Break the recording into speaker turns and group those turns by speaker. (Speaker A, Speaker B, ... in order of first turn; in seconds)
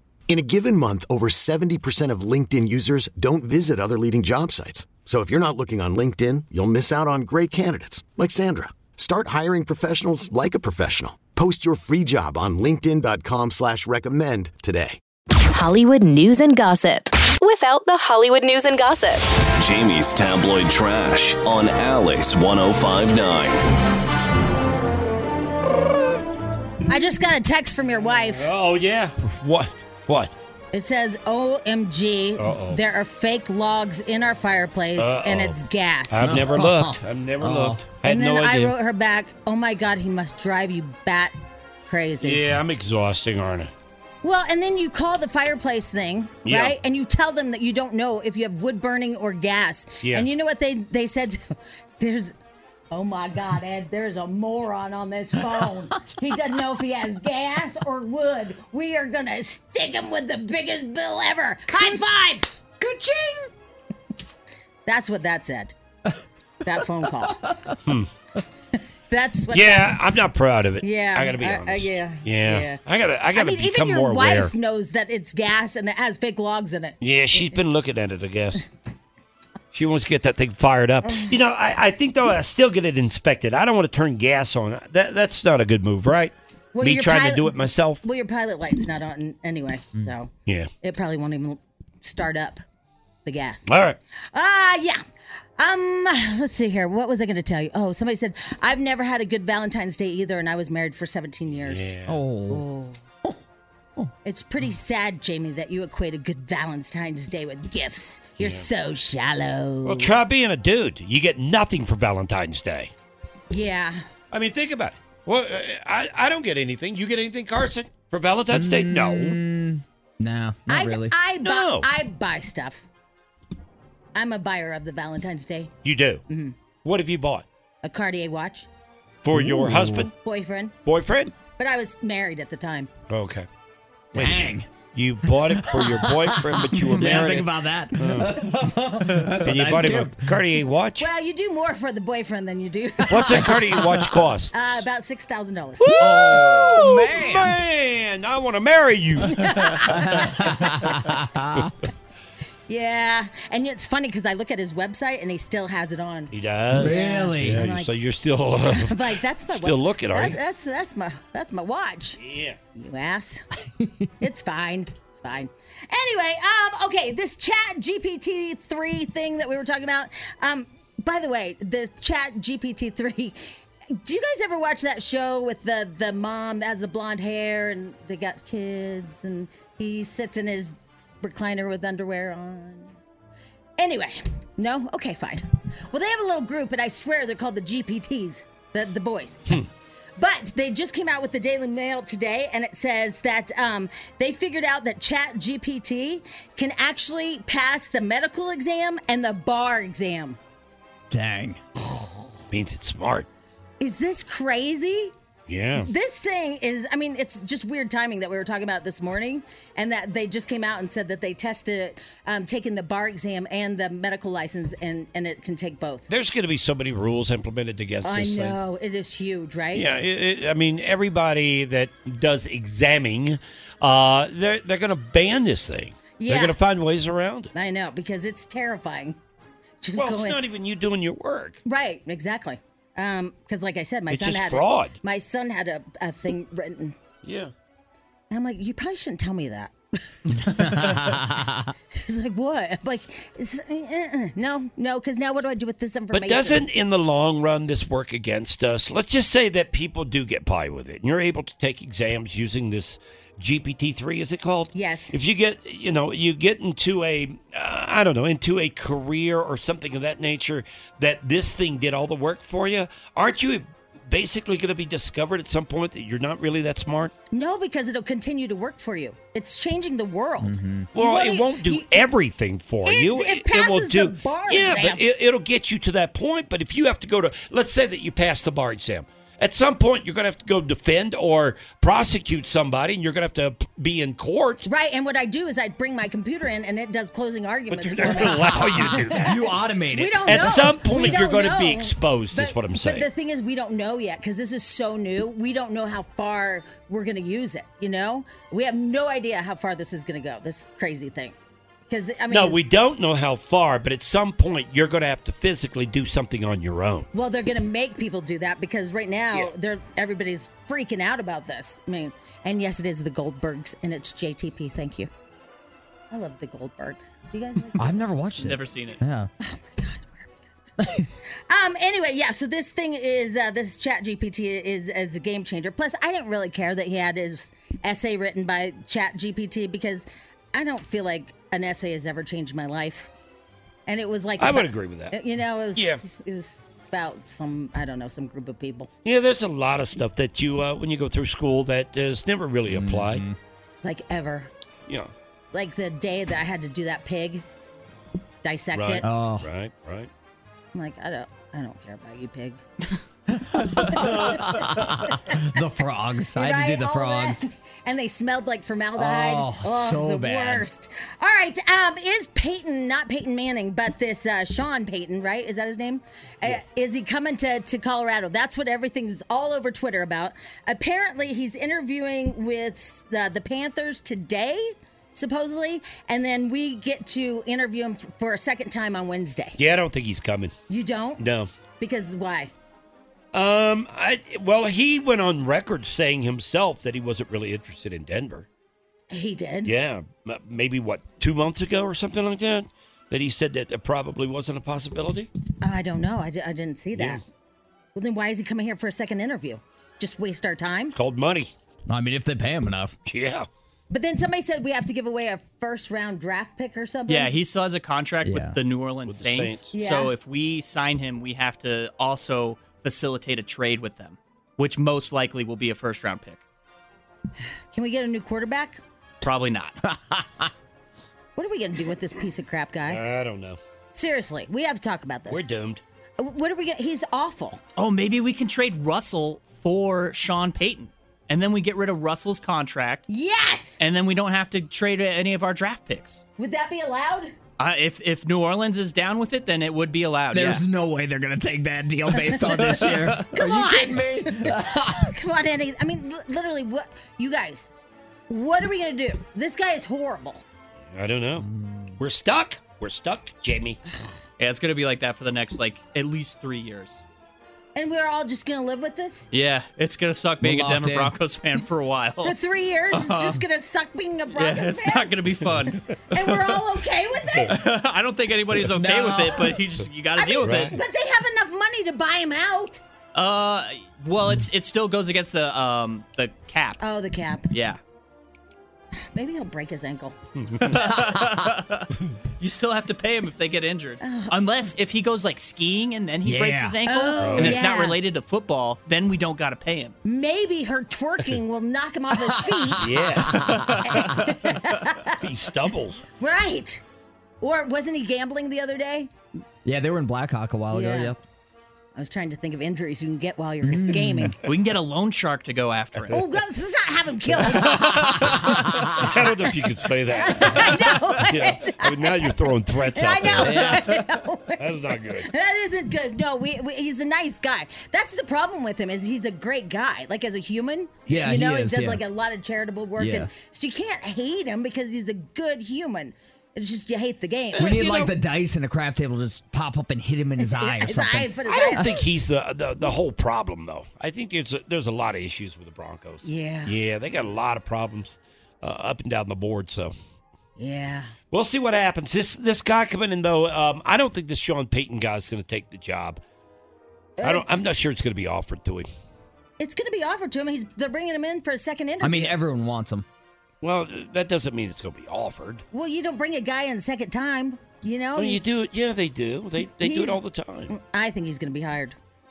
Speaker A: 0.3-15.0
Speaker B: 15.5-19.3
Speaker C: 19.6-23.6
Speaker D: 26.9-28.5, 30.7-36.5, 38.0-41.3, 41.9-42.4, 44.2-52.3, 52.9-62.6, 64.9-65.7, 66.6-67.5, 68.8-70.0, 70.8-72.8, 73.3-77.0, 86.7-92.6, 93.2-93.7, 94.3-95.0, 95.6-101.9, 102.5-103.0, 104.2-110.2, 113.5-114.0, 120.7-122.9, 124.1-125.7, 126.3-126.5, 127.8-128.7, 130.1-130.8, 131.5-132.9, 141.0-146.2, 149.3-150.8, 152.7-157.9, 158.7-162.2, 162.8-163.5, 164.2-182.9, 183.8-189.7, 190.2-200.4, 201.8-202.4, 203.8-205.1, 205.8-216.1, 218.0-219.9, 226.2-226.6, 227.5-229.2, 229.8-230.4, 231.7-237.0, 238.3-241.3, 241.9-246.7, 254.7-255.2, 267.3-272.1, 272.9-275.0, 284.7-289.4, 289.9-301.4, 301.9-302.6, 307.1-315.1, 316.1-318.5, 319.4-333.1, 333.9-338.9, 343.8-344.5, 345.5-347.4, 348.4-349.0, 350.7-352.6, 353.8-355.4, 356.3-379.6, 380.7-381.2, 381.8-382.5, 389.1-389.7, 395.6-397.2, 397.9-400.9, 403.9-407.3, 409.7-410.1, 417.7-418.8, 421.4-423.0, 423.9-425.5, 426.2-427.6, 433.1-433.8, 436.4-437.3, 442.7-447.7, 448.3-450.4, 457.8-459.3, 462.2-465.2, 466.1-467.6, 470.2-472.8, 476.8-477.5, 479.1-480.2, 484.0-484.3, 486.9-488.0, 490.1-493.2, 493.8-495.2, 496.2-496.8, 497.4-499.1, 500.7-501.1, 501.9-504.4, 506.1-508.6, 510.1-527.8, 530.4-532.1, 536.2-536.8, 540.6-541.1, 547.2-547.8, 549.6-552.4, 555.7-558.4, 559.8-562.0
Speaker E: 28.2-30.3, 32.4-32.8, 35.0-35.6, 36.1-38.7, 42.2-43.7, 46.5-46.8, 67.8-68.1, 69.5-74.5, 77.0-78.6, 79.8-88.0, 90.5-90.7, 93.7-94.0, 101.6-102.2, 108.4-108.7, 109.8-112.9, 114.3-119.4, 121.4-121.9, 125.8-126.2, 126.8-127.5, 129.2-130.1, 130.8-131.3, 133.1-133.5, 134.1-138.4, 139.4-141.1, 143.1-144.8, 145.8-149.7, 156.3-160.4, 162.2-162.6, 202.5-203.3, 205.5-205.9, 216.1-218.6, 219.7-227.5, 229.9-231.6, 234.1-235.0, 237.2-237.5, 246.1-267.1, 270.9-284.6, 287.7-289.4, 290.2-293.1, 302.3-307.1, 334.4-335.1, 335.8-336.0, 339.1-343.2, 344.9-345.1, 348.7-350.1, 379.6-380.5, 381.2-381.5, 383.3-388.5, 389.6-395.3, 396.9-397.2, 400.9-401.5, 403.1-403.5, 409.1-409.7, 422.9-423.6, 425.3-425.8, 450.9-451.4, 452.0-453.8, 470.4-470.8, 480.4-480.9, 487.2-487.6, 492.8-493.8, 495.2-496.0, 508.9-513.8, 514.6-515.3, 527.7-528.1, 531.5-539.9, 541.3-546.2, 547.2-548.9, 553.6-555.6, 558.2-560.7
Speaker F: 36.2-37.8, 62.8-63.5, 67.4-67.7, 102.1-102.6, 118.5-121.2, 129.3-130.1, 134.2-134.7, 135.3-140.3, 146.0-147.6, 149.9-151.7, 156.7-157.6, 201.1-201.6, 240.4-241.7, 270.4-270.9, 288.1-291.1, 317.8-319.3, 342.7-343.4, 349.0-349.5, 353.3-357.4, 359.0-360.7, 401.9-403.0, 408.2-408.6, 420.1-420.4, 440.3-445.1, 451.4-452.0, 460.4-461.1, 468.7-469.6, 480.9-481.4, 486.2-486.8, 492.3-493.9, 499.6-501.2, 503.6-504.4, 508.4-509.1, 513.3-513.9, 521.1-522.0, 523.0-523.3, 527.6-531.9, 552.0-553.0
Speaker G: 318.4-319.0, 407.1-416.4, 419.2-419.8, 427.8-433.1, 433.8-436.2, 437.6-440.6, 442.7-443.0, 454.4-457.0, 459.3-462.4, 462.9-463.4, 464.3-466.6, 467.5-470.8, 473.1-476.8, 477.5-477.8, 480.6-489.9, 504.4-506.2, 507.5-508.4